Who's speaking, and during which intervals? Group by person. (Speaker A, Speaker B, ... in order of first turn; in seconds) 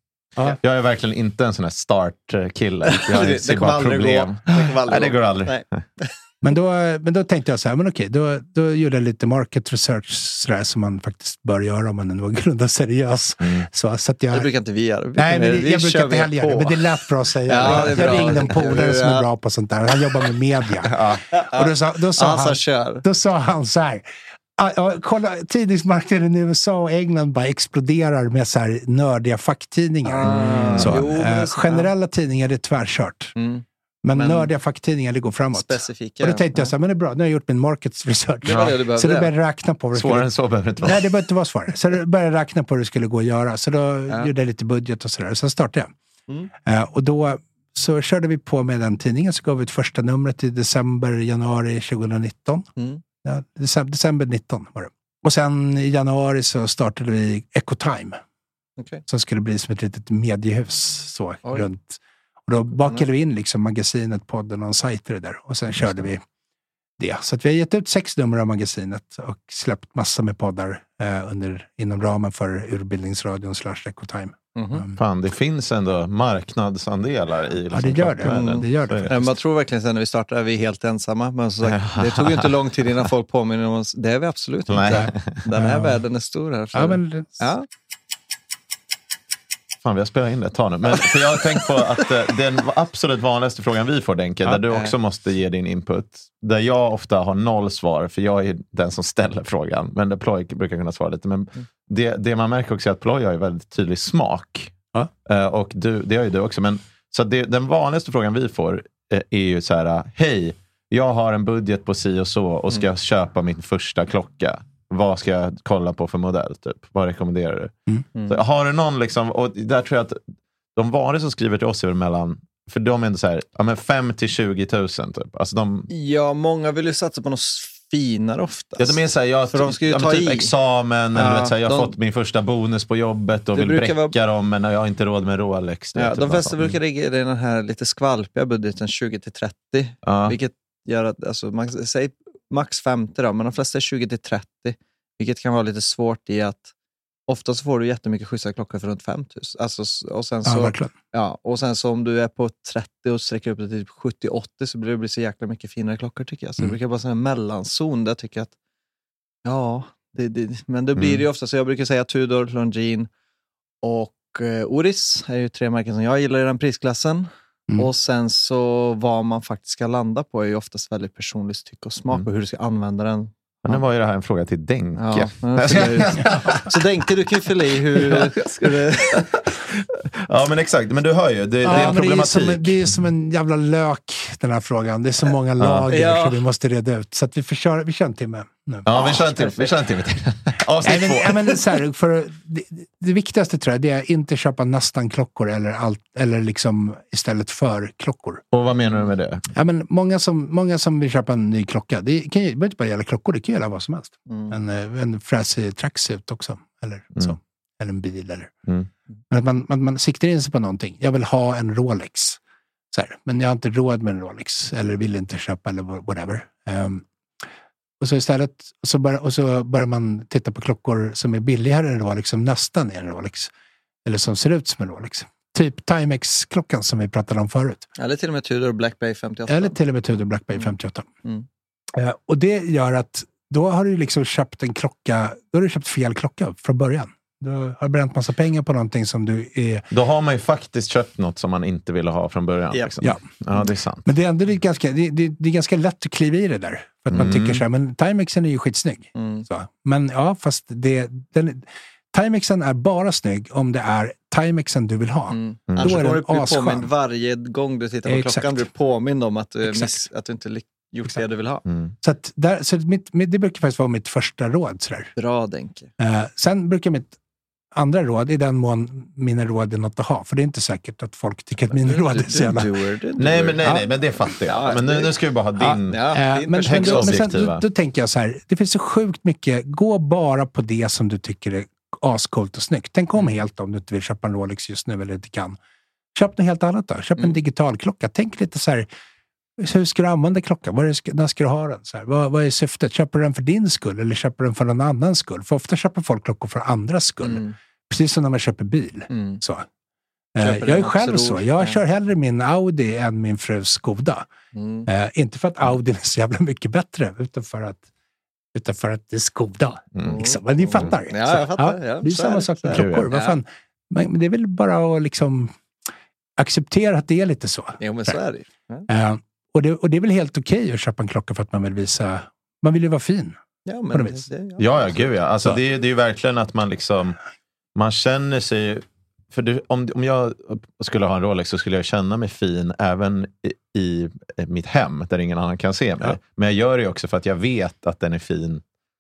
Speaker A: 0.6-5.8, 13.4-13.7, 17.6-18.3, 30.3-31.0, 38.5-38.8, 39.9-41.1, 75.0-79.1, 81.7-82.5, 84.7-85.4, 89.8-104.7, 105.3-117.7, 118.3-120.2, 120.8-125.9, 128.8-136.8, 140.0-140.4, 161.0-161.2, 173.7-177.1, 178.0-182.8, 185.6-185.9, 188.9-191.6, 198.5-199.4, 239.9-244.1, 247.1-247.6, 255.7-256.0, 261.7-261.9, 273.2-277.6, 312.7-313.1, 324.6-327.2, 327.8-338.6
Speaker B: 2.9-6.1, 14.3-16.9, 17.5-19.3, 20.9-23.0, 30.1-31.9, 33.4-34.5, 35.5-36.7, 38.4-39.3, 52.8-53.0, 58.8-59.0, 62.8-63.0, 74.5-74.8, 78.2-87.7, 94.7-94.9, 118.2-118.4, 125.9-129.0, 129.5-130.5, 131.2-131.9, 133.6-134.2, 135.9-146.7, 147.3-158.5, 159.4-163.1, 163.8-173.8, 175.0-179.4, 185.9-186.4, 204.3-204.6, 228.0-229.8, 249.2-249.5, 255.3-261.6, 265.2-265.9, 271.8-273.8, 274.4-275.1, 275.8-277.3, 297.2-297.6, 299.1-299.4, 300.4-301.8, 304.5-304.9, 310.0-313.4, 317.8-318.9, 323.6-325.1
Speaker C: 6.4-14.5, 15.2-24.1, 24.6-33.4, 34.0-40.3, 40.8-45.9, 46.6-52.7, 53.2-58.2, 59.1-66.2, 67.0-75.0, 77.7-79.3, 84.9-86.0, 86.7-87.5, 150.4-150.9, 181.6-189.5, 190.8-198.4, 199.5-208.5, 209.3-212.4, 212.9-217.1, 218.0-223.5, 224.1-227.9, 229.5-231.1, 231.9-239.9, 244.1-256.9, 258.1-258.7, 259.6-260.1, 262.0-265.1, 266.0-267.1, 267.7-272.7, 275.6-285.6, 286.1-288.9, 289.6-299.7, 300.4-304.3, 304.9-307.8, 308.5-315.5, 316.4-318.2, 318.9-323.4, 323.9-324.3